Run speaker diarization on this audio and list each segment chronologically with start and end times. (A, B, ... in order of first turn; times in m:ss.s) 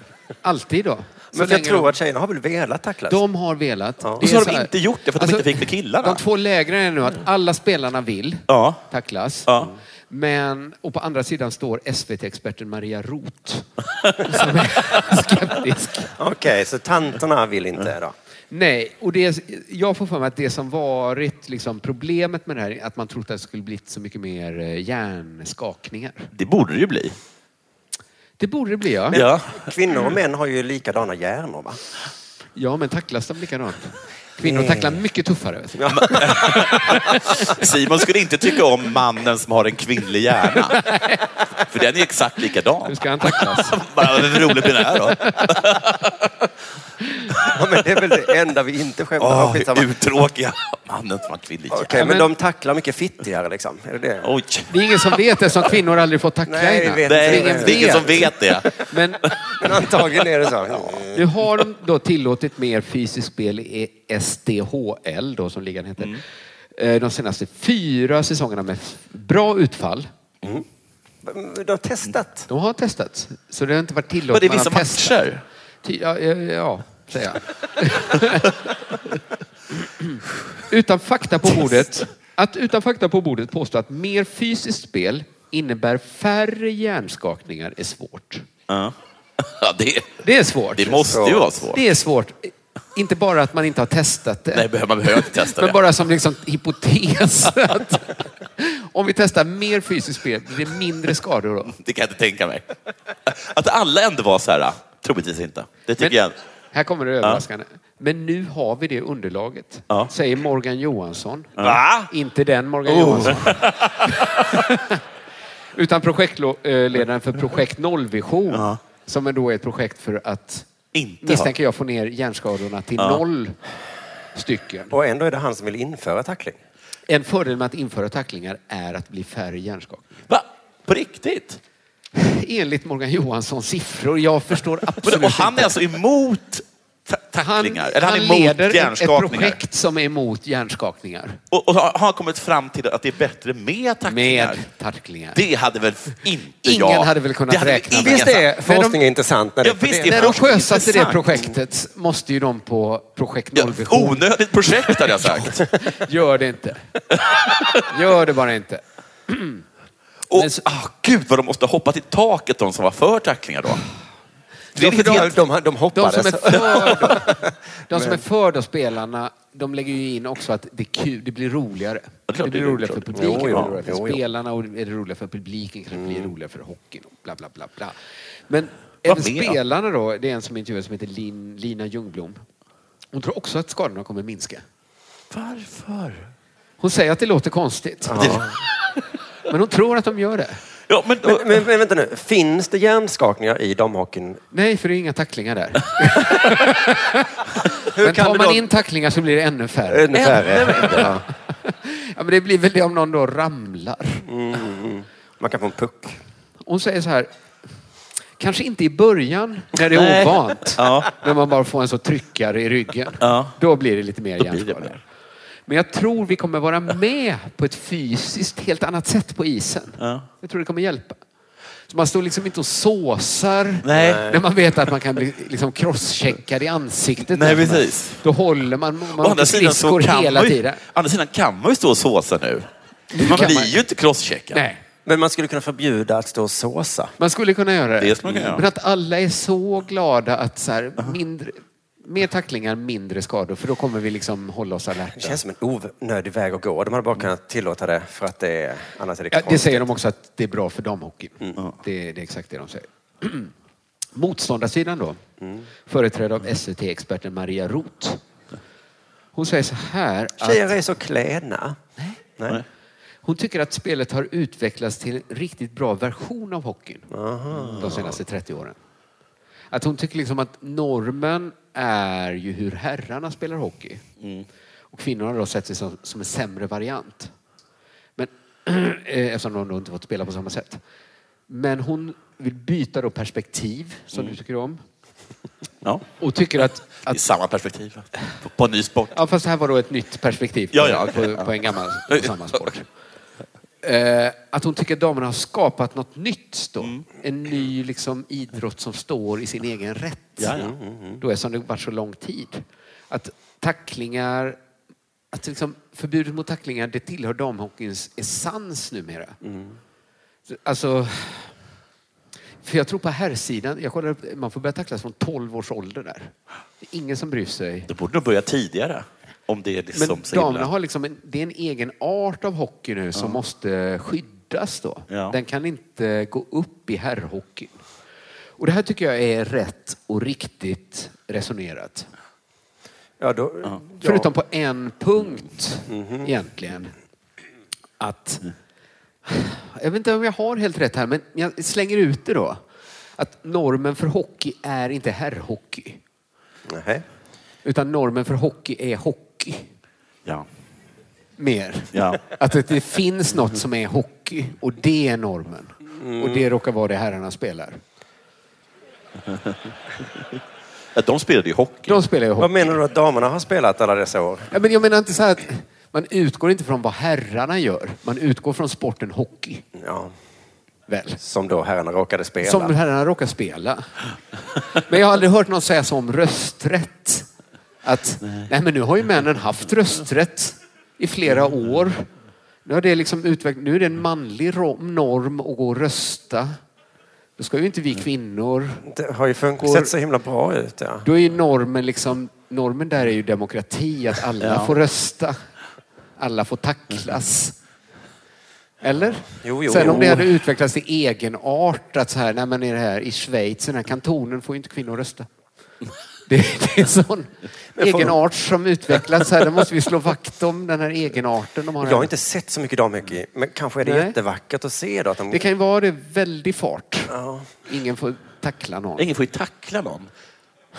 0:00.4-0:01.9 A
0:01.3-0:03.2 B
0:03.1-0:09.5 A
0:04.2-0:06.2 C
0:08.5-0:08.8 C
0:10.1-0:13.7 A
0:14.2-0:16.1 A
0:16.2-0:18.1 B
0:18.5-0:26.3 A
0:26.3-0:27.2 C
0:28.4-0:29.2 A
0:29.1-0:31.8 B
0:29.1-0:29.7 C
0:32.6-0:37.2 A
0:34.4-0:35.0 B
0:35.8-0:36.9 B
0:36.0-0:40.8 C
0:40.7-0:41.2 A
0:41.7-0:46.2 C
0:42.8-0:45.6 A
0:47.4-0:49.9 B
0:49.2-0:52.0 C
0:51.7-0:54.3 B
0:51.9-0:52.3 A
0:54.2-0:54.7 C
0:54.7-0:59.3 A
0:56.4-0:58.3 B
0:57.0-0:58.8 C
0:59.6-1:01.2 B
1:01.1-1:06.2 A
1:06.8-1:10.1 A
1:11.2-1:12.5 B
1:12.5-1:15.2 A
1:14.3-1:15.4 C
1:15.8-1:18.5 A
1:20.7-1:28.5 A
1:28.7-1:30.2 C
1:30.2-1:31.2 A
1:30.7-1:31.8 C
1:31.1-1:31.5 B
1:31.7-1:41.7 A
1:34.5-1:35.8 C
1:41.7-1:42.6 C
1:43.2-1:46.3 C
1:46.7-1:55.0 A
1:51.6-1:52.1 C
1:52.9-1:54.0 C
1:55.7-2:00.7 A
1:58.5-1:58.8 C
2:00.9-2:01.5 C
2:01.2-2:03.6 A
2:04.3-2:04.9 A
2:04.9-2:06.6 B
2:07.1-2:10.3 A
2:10.3-2:11.6 C
2:12.1-2:15.8 A
2:15.0-2:19.6 C
2:17.4-2:21.4 A
2:21.5-2:24.6 C
2:24.0-2:25.4 A
2:25.3-2:28.4 C
2:26.6-2:29.0 A
2:27.9-2:30.4 B
2:29.6-2:31.5 C
2:30.0-2:34.2 A
2:33.5-2:35.6 C
2:34.9-2:36.8 A
2:37.4-2:37.8 C
2:37.7-2:39.6 A
2:40.3-2:43.8 C
2:40.3-2:40.6 A
2:44.8-2:48.2 B
2:44.8-2:45.4 C
2:45.9-2:47.4 A
2:47.9-2:58.0 A
2:52.3-2:53.7 C
2:53.1-2:54.2 B
2:58.5-3:02.4 A
2:59.0-2:59.6 C
3:03.1-3:04.6 A
3:05.3-3:06.3 C
3:06.8-3:08.4 A
3:08.1-3:08.4 B
3:08.2-3:08.5 C
3:09.5-3:10.6 A
3:10.9-3:11.5 C
3:11.2-3:14.4 B
3:14.5-3:17.3 A
3:17.9-3:18.7 B
3:18.0-3:24.2 A
3:19.9-3:21.2 B
3:24.3-3:26.2 B
3:26.6-3:27.3 A
3:28.4-3:35.0 A
3:29.9-3:31.1 C
3:33.2-3:33.6 C
3:34.4-3:35.0 C
3:35.7-3:41.2 A
3:40.0-3:40.2 C
3:41.9-3:50.8 A
3:43.8-3:44.3 C
3:44.0-3:44.3 B
3:47.3-3:48.2 C
3:49.2-3:54.6 C
3:53.1-3:53.8 A
3:54.5-3:54.8 A
3:55.0-3:57.1 B
3:57.2-4:05.4 A
3:58.0-3:58.6 C
4:05.2-4:09.9 B
4:09.3-4:13.5 A
4:14.1-4:15.2 A
4:15.4-4:15.6 B
4:15.9-4:18.2 A
4:19.3-4:20.8 A
4:20.4-4:21.8 B
4:23.2-4:27.1 A
4:27.1-4:28.0 B
4:27.6-4:28.8 A
4:27.7-4:28.0 C
4:29.7-4:34.0 A
4:34.9-4:37.3 A
4:38.2-4:40.8 A
4:41.5-4:44.8 A
4:45.8-4:46.1 C
4:46.2-4:47.2 A
4:46.9-4:49.2 C
4:49.1-4:52.8 A
4:50.7-4:51.5 C
4:52.1-4:52.6 C
4:53.8-5:00.5 A
5:00.4-5:00.7 C
5:00.5-5:01.2 B
5:01.2-5:04.6 A
5:05.3-5:09.4 A
5:09.4-5:09.8 B
5:10.5-5:11.5 A
5:12.6-5:17.9 A
5:17.9-5:20.7 C
5:19.9-5:27.8 A
5:25.1-5:25.4 C
5:28.6-5:32.1 A
5:33.2-5:34.3 B
5:34.0-5:36.9 A
5:35.9-5:36.3 B
5:38.0-5:38.4 A
5:39.2-5:42.6 A
5:43.2-5:46.0 A
5:46.7-5:47.0 B
5:47.6-5:49.7 A
5:51.4-5:57.8 A
5:51.9-5:52.2 C
5:56.0-5:56.5 B
6:00.9-6:02.0 C
6:01.9-6:02.7 A
6:02.4-6:04.5 B
6:04.5-6:09.6 A
6:09.7-6:10.1 B
6:10.9-6:11.2 A
6:11.2-6:12.7 B
6:12.4-6:13.9 A
6:14.8-6:17.3 A
6:17.8-6:22.1 A
6:22.6-6:26.6 A
6:27.4-6:28.8 A
6:28.8-6:31.0 B
6:29.6-6:29.9 A
6:31.0-6:35.4 A
6:34.4-6:34.7 C
6:36.2-6:37.5 A
6:38.8-6:45.3 A
6:39.4-6:40.3 B
6:46.3-6:52.1 A
6:47.8-6:48.2 B
6:51.8-6:55.4 B
6:53.8-6:54.2 A
6:55.3-6:59.1 A
6:57.1-6:57.5 B
6:59.0-7:00.1 C